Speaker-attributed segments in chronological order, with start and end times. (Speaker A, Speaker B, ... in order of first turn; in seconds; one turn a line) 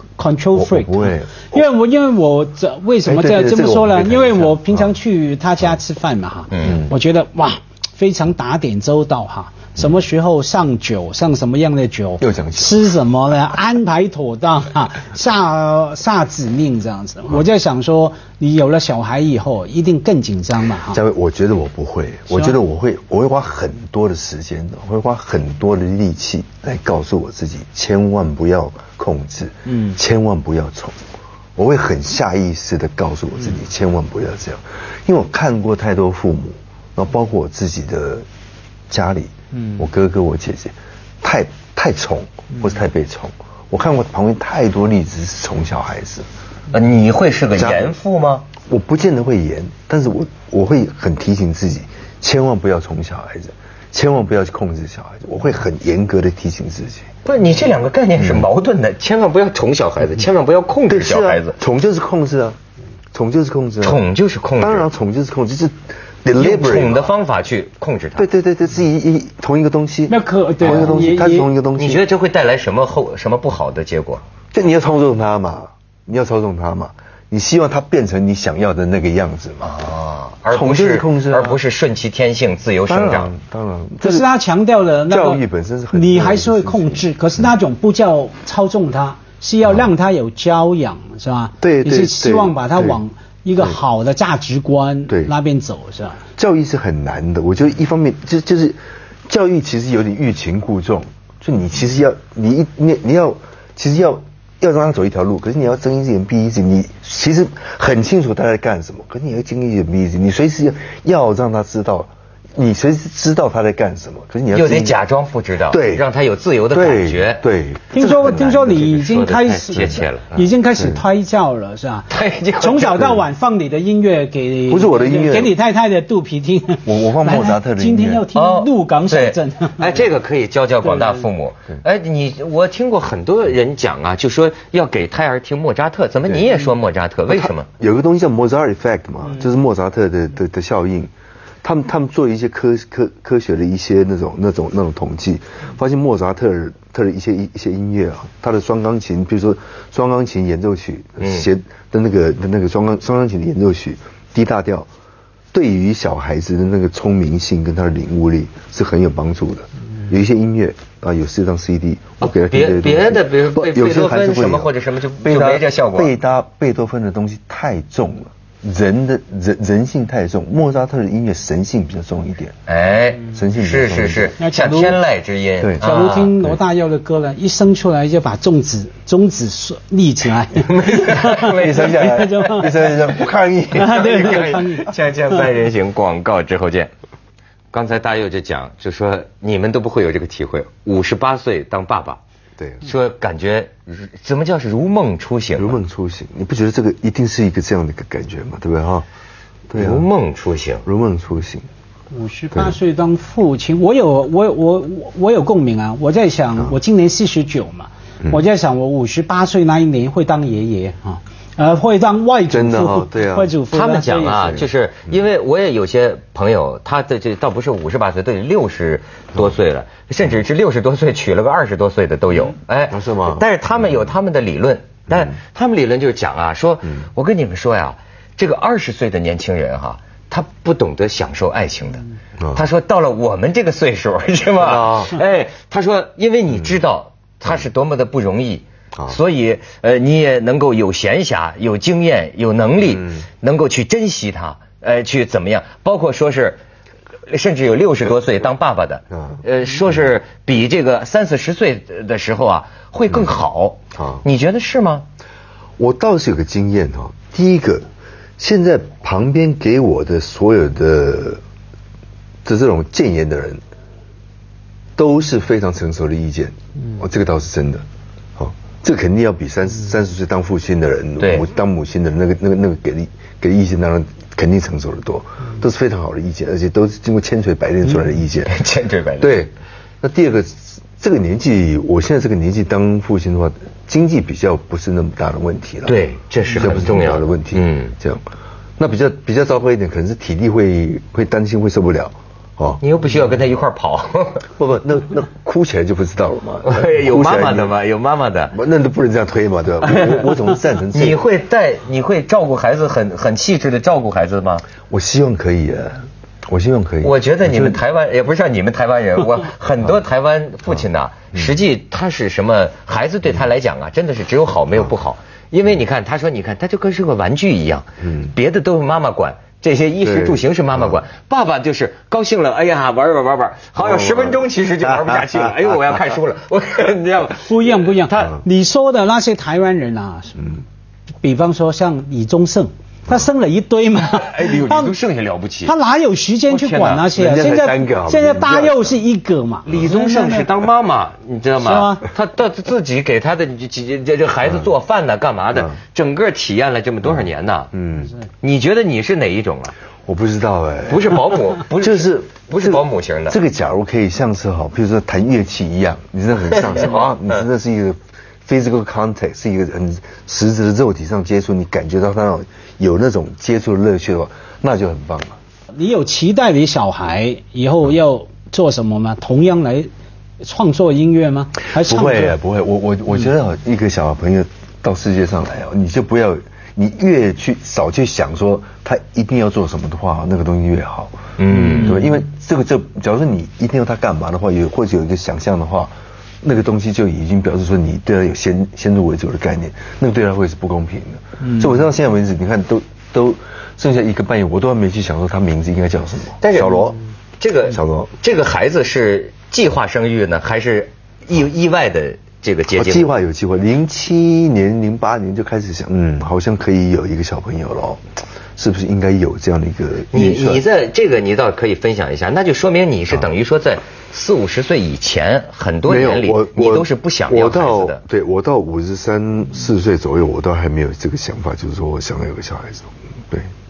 Speaker A: 0.2-21.0
Speaker B: 0.5-1.6
Speaker B: 3.1-4.9
Speaker C: 6.5-6.8
Speaker B: 6.6-6.9
Speaker B: 12.2-12.8
Speaker B: 20.9-31.0
Speaker A: 29.7-30.0
Speaker B: 31.6-38.3
Speaker B: 38.9-46.3
Speaker C: 46.7-48.5
Speaker B: 47.5-48.0
Speaker B: 48.6-57.1
Speaker C: 57.2-61.5
Speaker B: 58.2-58.5
Speaker B: 60.9-62.6
Speaker B: 63.1-64.0
Speaker C: 63.8-64.9
Speaker B: 64.6-67.1
Speaker C: 66.3-68.3
Speaker B: 68.2-72.0
Speaker A: 70.1-71.5
Speaker C: 70.6-71.0
Speaker C: 71.8-74.2
Speaker B: 74.5-79.8
Speaker C: 79.6-83.3
Speaker B: 80.5-81.6
Speaker B: 82.9-84.2
Speaker A: 84.0-96.2
Speaker B: 85.1-87.0
Speaker B: 91.6-93.0
Speaker B: 95.1-95.3
Speaker B: 96.4-115.0
Speaker C: 114.5-117.4
Speaker B: 115.7-116.0
Speaker B: 116.7-118.9
Speaker A: 117.9-130.0
Speaker C: 118.1-120.3
Speaker B: 119.7-121.0
Speaker C: 122.1-123.1
Speaker B: 124.7-125.5
Speaker B: 126.8-128.3
Speaker C: 128.3-137.7
Speaker A: 130.9-131.2
Speaker B: 137.3-141.1
Speaker B: 141.6-154.9
Speaker C: 151.2-151.5
Speaker B: 155.5-172.5
Speaker C: 162.2-166.1
Speaker C: 172.7-176.3
Speaker B: 173.3-174.3
Speaker A: 174.4-175.0
Speaker B: 175.6-176.6
Speaker A: 175.8-182.9
Speaker C: 180.6-182.7
Speaker B: 181.4-184.6
Speaker A: 183.7-185.3
Speaker C: 183.8-186.9
Speaker C: 187.7-192.2
Speaker B: 192.6-192.9
Speaker C: 192.8-195.8
Speaker B: 195.6-199.1
Speaker B: 199.7-200.1
Speaker C: 199.7-200.8
Speaker B: 200.8-201.7
Speaker A: 202.1-214.6
Speaker B: 212.5-213.6
Speaker C: 213.7-232.0
Speaker B: 222.9-223.4
Speaker C: 232.5-246.6
Speaker B: 234.6-235.2
Speaker B: 243.0-243.2
Speaker C: 247.3-255.1
Speaker B: 249.1-249.4
Speaker B: 253.9-254.2
Speaker B: 255.8-257.9
Speaker B: 258.4-261.4
Speaker B: 262.4-263.6
Speaker B: 265.0-267.9
Speaker B: 268.4-278.5
Speaker C: 271.2-271.5
Speaker C: 277.9-279.5
Speaker B: 279.2-286.0
Speaker C: 285.9-287.9
Speaker B: 286.6-288.2
Speaker B: 288.8-292.8
Speaker C: 292.8-294.5
Speaker B: 294.6-297.8
Speaker C: 296.6-298.6
Speaker B: 298.5-301.2
Speaker C: 299.9-300.2
Speaker C: 300.9-304.6
Speaker B: 304.9-307.8
Speaker C: 307.0-327.9
Speaker B: 311.3-311.6
Speaker B: 318.0-318.3
Speaker B: 320.0-320.4
Speaker B: 323.8-325.7
Speaker A: 327.5-330.5
Speaker A: 331.2-334.9
Speaker C: 334.1-335.7
Speaker A: 335.6-340.5
Speaker C: 336.5-337.1
Speaker B: 337.1-338.9
Speaker C: 339.7-347.7
Speaker A: 341.6-342.1
Speaker B: 347.7-348.1
Speaker C: 348.4-349.8
Speaker B: 350.1-365.4
Speaker C: 350.9-353.4
Speaker C: 356.6-357.1
Speaker A: 365.7-369.9
Speaker A: 370.4-372.4
Speaker B: 371.7-381.2
Speaker C: 381.4-382.0
Speaker A: 381.5-382.1
Speaker B: 381.8-385.9
Speaker B: 386.4-397.0
Speaker A: 391.4-391.7
Speaker C: 396.4-403.1
Speaker B: 397.7-398.1
Speaker B: 402.7-408.0
Speaker B: 408.6-410.6
Speaker C: 410.1-418.0
Speaker B: 415.9-423.5